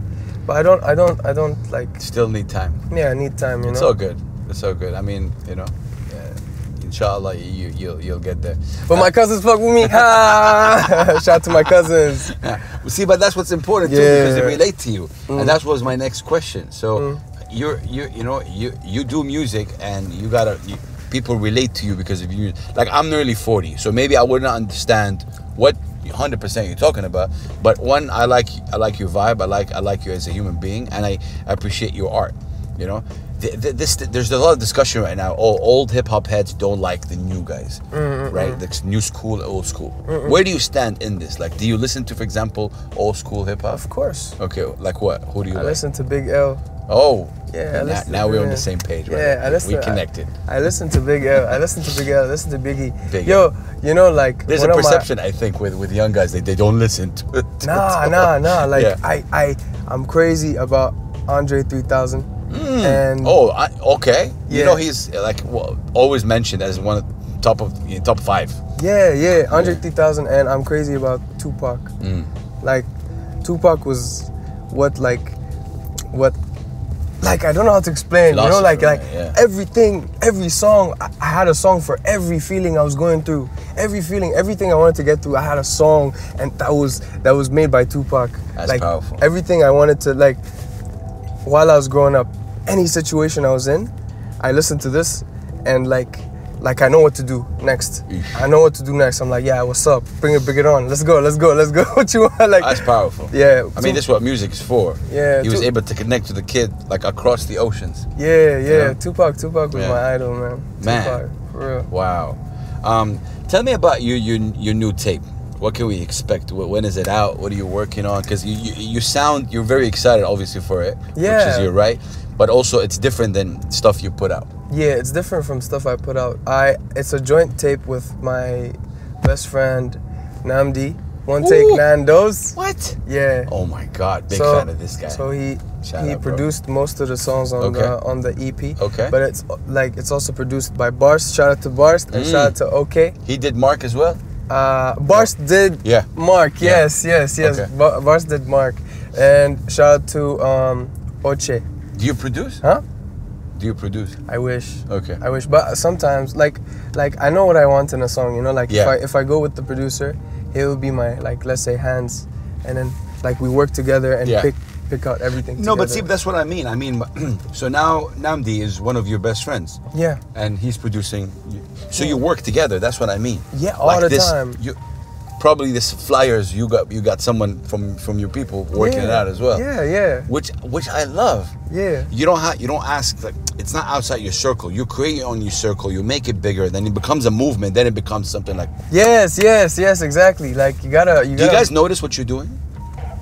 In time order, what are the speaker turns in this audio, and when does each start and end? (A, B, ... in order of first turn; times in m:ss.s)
0:00.5-0:02.0 A
0:02.0-0:02.8 B
0:02.9-0:03.9 A
0:03.6-0:09.1 B
0:08.9-0:12.4 A
0:09.8-0:11.2 B
0:12.3-0:43.8 B
0:13.8-0:14.6 A
0:15.3-0:15.6 A
0:16.9-0:17.2 A
0:37.9-0:38.6 A
0:40.1-0:40.4 A
0:43.7-0:44.4 A
0:44.4-0:45.8 B
0:45.5-0:46.6 A
0:46.9-0:50.3 B
0:47.5-0:55.1 A
0:53.0-0:53.5 B
0:54.5-0:59.0 B
0:57.6-1:02.3 A
1:02.5-1:08.6 B
1:02.8-1:03.4 A
1:04.5-1:04.8 A
1:08.8-1:11.9 A
1:09.5-1:09.8 B
1:12.0-1:12.3 B
1:12.6-1:12.9 A
1:13.4-1:15.4 A
1:16.1-1:16.4 A
1:17.2-1:30.4 A
1:18.3-1:19.4 B
1:28.6-1:29.2 B
1:31.4-1:44.0 A
1:38.1-1:38.5 B
1:42.6-1:48.1 B
1:45.1-1:45.7 A
1:48.2-1:51.9 A
1:48.6-1:49.0 B
1:49.7-1:50.0 B
1:50.8-1:51.2 B
1:51.9-2:04.5 B
2:01.2-2:01.7 A
2:04.7-2:13.5 A
2:11.4-2:11.8 B
2:12.5-2:15.2 B
2:14.3-2:23.2 A
2:15.8-2:16.4 B
2:17.6-2:17.9 B
2:18.8-2:19.2 B
2:22.1-2:22.5 B
2:23.2-2:24.2 B
2:24.5-2:31.6 A
2:26.6-2:26.8 B
2:27.4-2:27.7 B
2:31.9-2:32.6 B
2:33.5-2:34.2 B
2:34.3-2:46.1 A
2:34.9-2:35.2 B
2:38.7-2:38.9 B
2:44.2-2:44.5 B
2:45.5-2:49.8 B
2:49.9-2:50.2 A
2:50.3-2:54.8 B
2:53.5-2:54.6 A
2:55.4-2:59.6 B
2:58.7-3:00.3 A
3:00.3-3:01.5 B
3:01.7-3:02.1 A
3:02.1-3:08.7 B
3:08.9-3:11.7 A
3:11.3-3:12.6 B